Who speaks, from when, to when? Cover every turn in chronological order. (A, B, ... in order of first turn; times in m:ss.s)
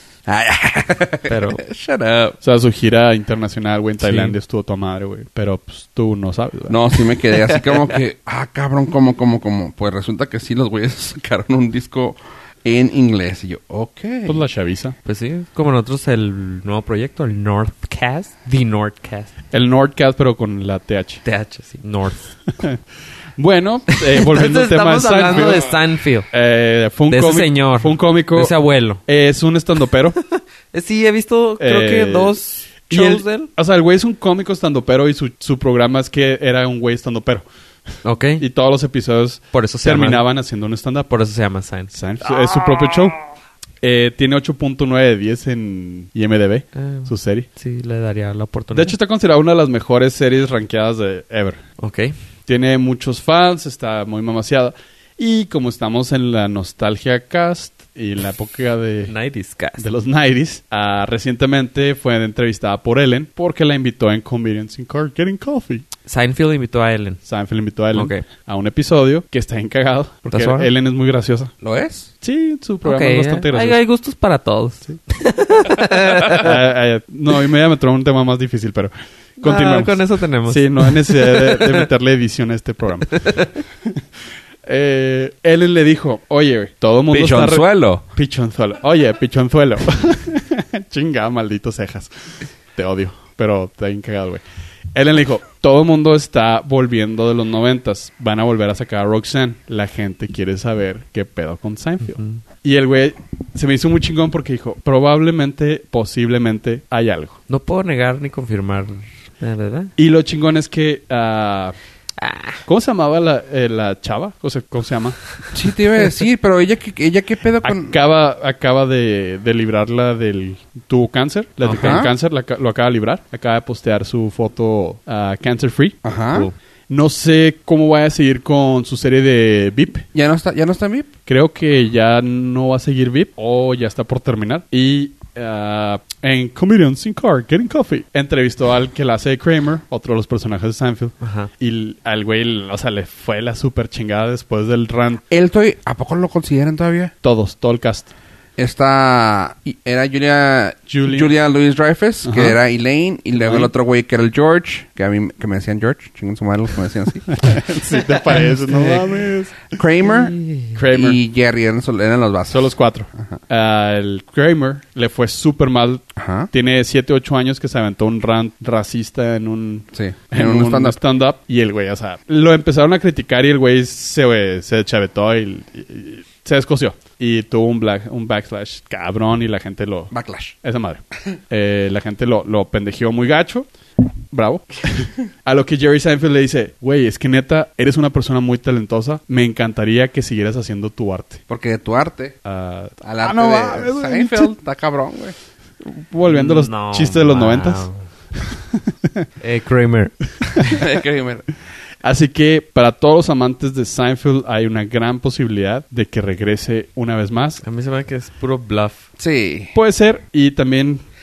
0:00.3-0:02.4 A
0:01.3-0:01.6 B
0:02.4-0:06.8 C
0:04.0-0:04.4 B
0:06.7-0:14.4 A
0:14.3-0:15.0 C
0:15.0-0:19.3 B
0:19.5-0:21.2 C
0:21.2-0:22.3 B
0:23.4-0:25.7 C
0:23.9-0:26.3 B
0:26.3-0:30.2 C
0:27.1-0:29.0 B
0:30.3-0:33.5 B
0:31.6-0:32.4 C
0:32.9-0:37.4 C
0:38.0-0:38.4 B
0:38.4-0:41.1 C
0:39.5-0:40.2 B
0:41.1-0:43.1 B
0:41.9-0:43.2 C
0:43.8-0:47.5 C
0:46.8-0:49.0 B
0:48.7-0:51.6 C
0:51.8-0:52.1 B
0:52.5-0:59.1 C
0:59.1-0:59.9 B
0:59.8-1:05.8 C
1:06.1-1:07.2 B
1:07.3-1:11.5 C
1:07.9-1:08.2 B
1:10.3-1:10.7 B
1:11.6-1:12.1 A
1:12.2-1:13.8 C
1:12.8-1:16.6 B
1:15.8-1:23.4 C
1:19.4-1:21.8 B
1:23.1-1:23.5 B
1:24.7-1:34.4 C
1:27.1-1:28.0 A
1:34.9-1:47.4 C
1:42.1-1:42.4 B
1:47.5-1:49.9 B
1:50.0-1:51.8 C
1:52.2-1:52.6 B
1:52.7-1:55.5 C
1:55.5-1:58.0 A
1:57.6-2:06.0 C
2:01.6-2:02.1 B
2:01.8-2:02.1 A
2:06.0-2:06.5 A
2:06.9-2:10.1 C
2:10.1-2:11.1 A
2:11.3-2:25.2 C
2:21.2-2:21.5 B
2:25.3-2:27.1 A
2:27.2-2:28.1 C
2:28.6-2:37.3 A
2:30.9-2:31.3 C
2:32.2-2:32.6 C
2:33.4-2:33.7 C
2:37.3-2:39.7 C
2:38.3-2:39.0 B
2:39.7-2:40.4 A
2:40.0-2:40.8 B
2:40.7-2:41.2 C
2:40.9-2:43.4 A
2:42.5-3:00.1 C
2:46.2-2:46.5 A
2:49.9-2:51.0 A
3:00.1-3:00.6 A
3:00.6-3:03.7 C
3:04.3-3:11.4 C
3:11.5-3:12.4 A
3:12.4-3:14.5 C
3:13.0-3:15.4 A
3:15.8-3:17.9 C
3:16.3-3:18.0 B
3:19.4-3:20.2 B
3:20.6-3:21.5 A
3:22.0-3:27.6 C
3:27.6-3:29.1 B
3:29.2-3:29.7 A
3:29.8-3:31.0 C